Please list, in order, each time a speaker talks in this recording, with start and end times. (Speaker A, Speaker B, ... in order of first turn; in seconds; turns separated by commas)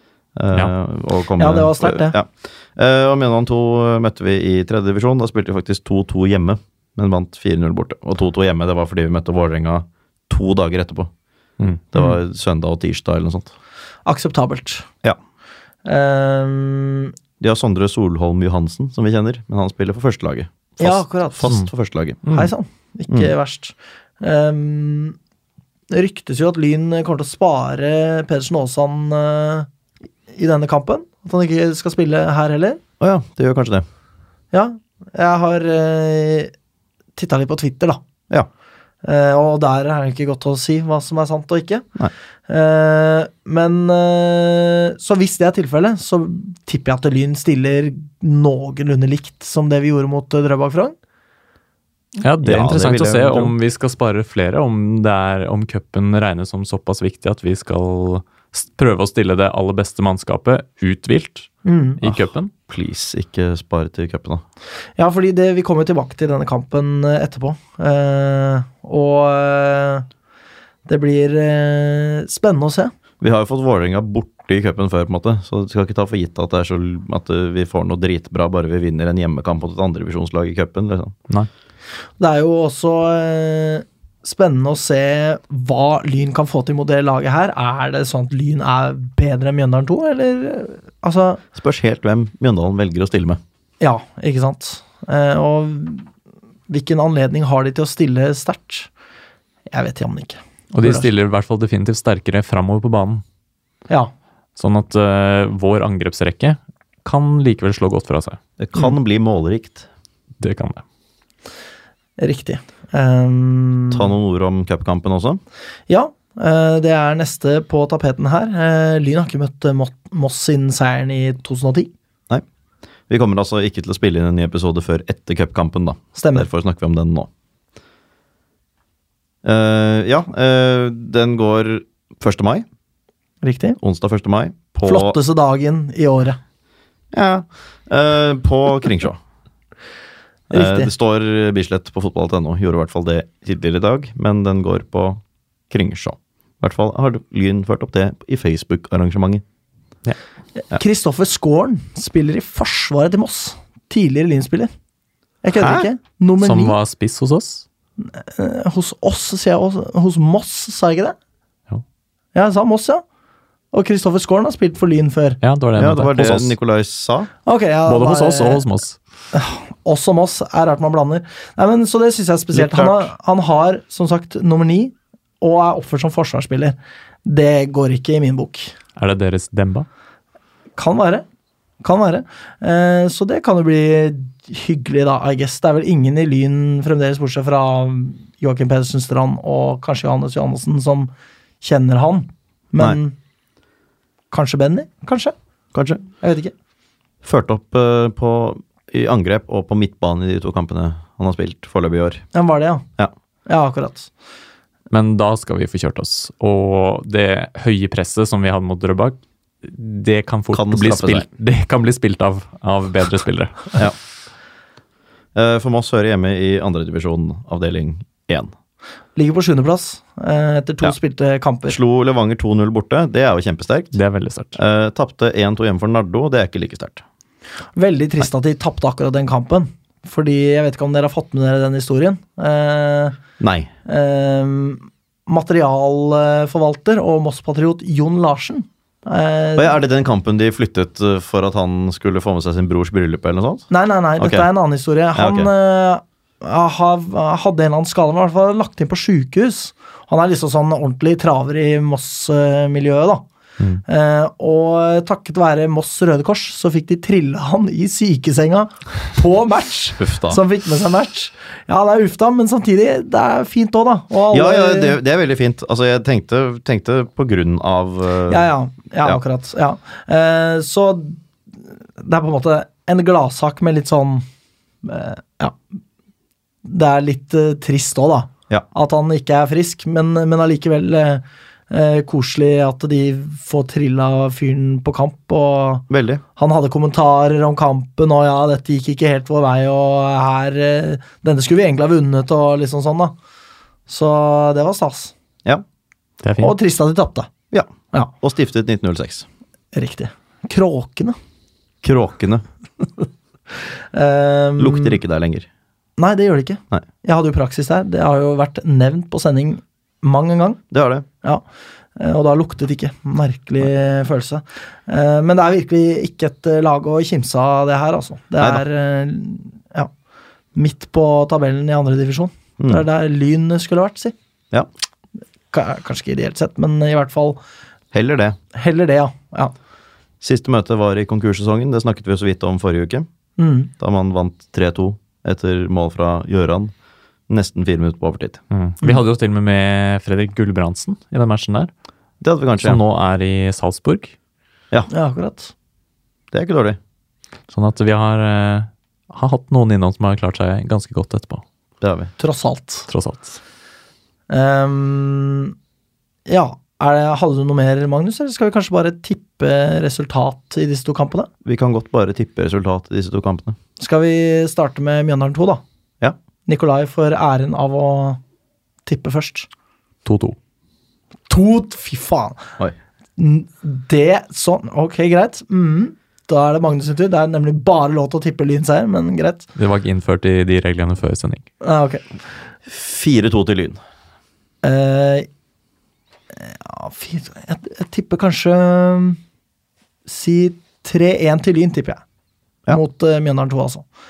Speaker A: 0.4-11.1, Speaker B: 1.4-2.2, Speaker A: 11.9-13.5, Speaker B: 14.1-14.9, Speaker B: 15.8-17.1, Speaker A: 17.4-22.2, Speaker B: 20.8-21.6, Speaker B: 22.3-25.2, Speaker B: 25.9-29.7, Speaker B: 30.3-32.8, Speaker A: 33.0-33.9, Speaker B: 34.5-36.5, Speaker B: 37.2-38.0, Speaker B: 39.0-41.9, Speaker B: 42.5-51.0, Speaker C: 52.2-62.5, Speaker A: 52.4-53.5, Speaker B: 61.6-62.1, Speaker A: 62.7-64.4, Speaker B: 65.0-70.1, Speaker B: 70.9-72.9, Speaker A: 73.2-81.1, Speaker B: 82.2-91.4, Speaker A: 91.5-93.4, Speaker B: 93.8-96.1, Speaker B: 96.7-98.9, Speaker B: 99.7-101.1, Speaker C: 100.7-103.2, Speaker C: 104.6-108.4, Speaker A: 108.6-109.9, Speaker C: 110.4-110.8, Speaker B: 112.2-114.1, Speaker A: 113.9-115.4, Speaker B: 115.9-121.9, Speaker A: 123.1-127.3, Speaker B: 126.2-126.5, Speaker A: 129.4-132.7, Speaker B: 133.4-133.8, Speaker A: 133.8-135.2, Speaker B: 134.8-136.4, Speaker A: 137.1-139.2, Speaker A: 140.5-149.4, Speaker B: 140.5-140.9, Speaker B: 150.7-154.7, Speaker B: 155.4-156.8, Speaker A: 155.5-155.9, Speaker C: 156.4-157.7, Speaker B: 158.1-161.2, Speaker B: 162.3-163.0, Speaker B: 163.7-165.4, Speaker C: 165.4-166.5, Speaker A: 165.8-167.3, Speaker B: 167.5-168.7, Speaker C: 167.9-169.0, Speaker B: 169.3-178.7, Speaker A: 172.5-173.1, Speaker C: 179.0-179.9, Speaker B: 180.8-181.2, Speaker B: 181.8-193.2, Speaker B: 194.3-195.3, Speaker A: 195.7-196.0, Speaker B: 196.2-196.5, Speaker A: 197.2-202.2, Speaker B: 202.3-202.8, Speaker B: 203.5-204.1, Speaker C: 204.9-213.9, Speaker A: 210.5-211.3, Speaker A: 215.3-218.5, Speaker B: 219.2-221.8, Speaker A: 221.7-224.0, Speaker C: 223.9-224.6, Speaker A: 224.6-227.0, Speaker B: 227.8-233.2, Speaker A: 233.4-233.7, Speaker B: 233.9-239.8, Speaker A: 239.6-244.5, Speaker B: 243.7-253.2, Speaker A: 245.2-245.5, Speaker B: 253.9-265.0, Speaker A: 260.0-260.4, Speaker A: 264.3-268.5, Speaker B: 268.3-271.2, Speaker B: 272.0-274.2, Speaker B: 274.8-275.6, Speaker B: 276.6-293.1, Speaker A: 285.9-286.2, Speaker B: 293.9-295.1, Speaker C: 296.2-296.6, Speaker B: 296.4-297.3, Speaker A: 298.2-299.3, Speaker B: 299.7-301.2, Speaker A: 301.8-302.4, Speaker B: 303.9-305.0, Speaker A: 304.6-305.5, Speaker B: 306.0-310.6, Speaker A: 310.7-311.1, Speaker B: 312.0-319.9, Speaker B: 320.6-324.1, Speaker A: 322.6-322.9, Speaker B: 325.5-327.4, Speaker A: 327.9-328.4, Speaker B: 328.5-329.5, Speaker A: 330.2-333.1, Speaker B: 333.4-333.7, Speaker A: 333.8-336.7, Speaker A: 337.3-338.4, Speaker C: 338.5-341.7, Speaker A: 342.2-342.8, Speaker C: 342.6-344.1, Speaker B: 344.9-345.5, Speaker A: 346.3-346.8, Speaker C: 347.5-351.4, Speaker A: 351.8-352.1, Speaker B: 352.2-352.9, Speaker C: 352.9-353.4, Speaker B: 354.3-355.5, Speaker B: 356.3-361.3, Speaker A: 361.4-363.6, Speaker B: 363.8-365.6, Speaker B: 366.5-368.2, Speaker B: 368.9-369.5, Speaker C: 370.1-370.4, Speaker B: 371.3-372.5, Speaker B: 373.2-379.5, Speaker C: 379.6-381.5, Speaker B: 381.6-382.0, Speaker A: 382.7-383.8, Speaker B: 384.6-385.3, Speaker B: 386.3-389.2, Speaker B: 390.1-392.0, Speaker B: 392.7-393.8